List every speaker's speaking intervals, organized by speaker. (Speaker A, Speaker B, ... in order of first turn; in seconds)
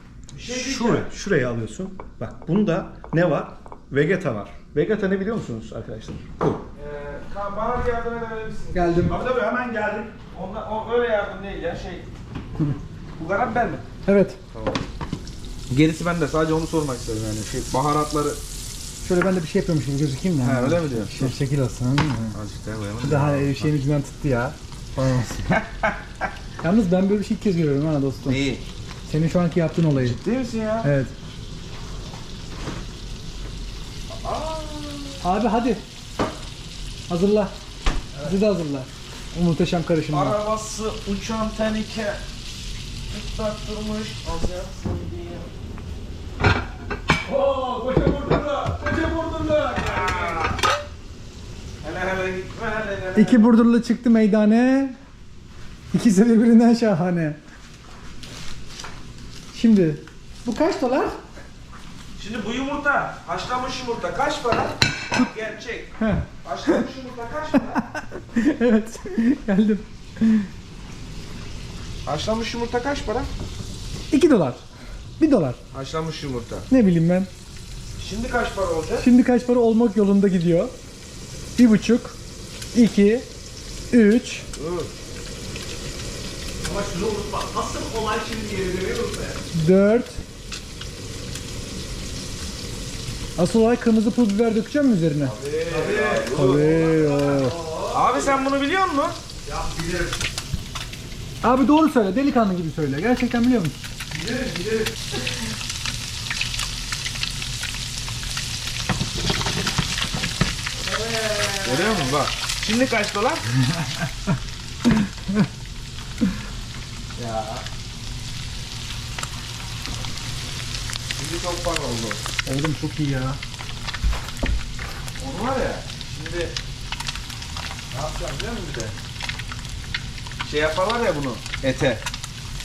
Speaker A: 0.3-1.1, 6.7-9.2, 10.3-12.1, 13.2-13.8, 14.5-14.8, 15.7-18.4, 20.4-21.3, 22.3-23.7, 25.5-25.9, 28.2-28.6, 29.9-30.9, 34.1-35.2, 40.1-42.2, 43.1-45.5, 49.8-50.6, 51.8-53.5, 62.1-67.8, 72.0-73.3, 75.7-76.7, 78.0-79.1, 84.5-84.9, 95.2-96.7, 97.9-99.2, 111.5-113.4, 117.1-117.6, 121.2-122.2, 125.2-126.5, 127.9-128.9, 130.4-132.0
Speaker B: 0.5-6.6, 9.1-10.1, 47.2-50.4, 86.6-89.4, 95.7-98.4, 99.4-100.2, 104.1-104.9, 110.8-112.1
Speaker C: 8.7-9.2, 14.0-14.4, 19.0-22.4, 23.0-25.5, 26.6-28.4, 29.1-30.2, 30.8-31.1, 35.2-35.8, 37.1-37.5, 38.2-40.4, 53.1-55.0, 55.9-57.4, 59.5-61.2, 66.0-66.8, 67.7-70.5, 74.1-74.6, 75.2-75.6, 76.7-77.3, 79.0-80.7, 81.5-82.2, 82.7-83.3, 83.9-84.5, 89.5-90.2, 93.3-95.3, 96.3-97.6, 101.4-103.8, 122.4-123.4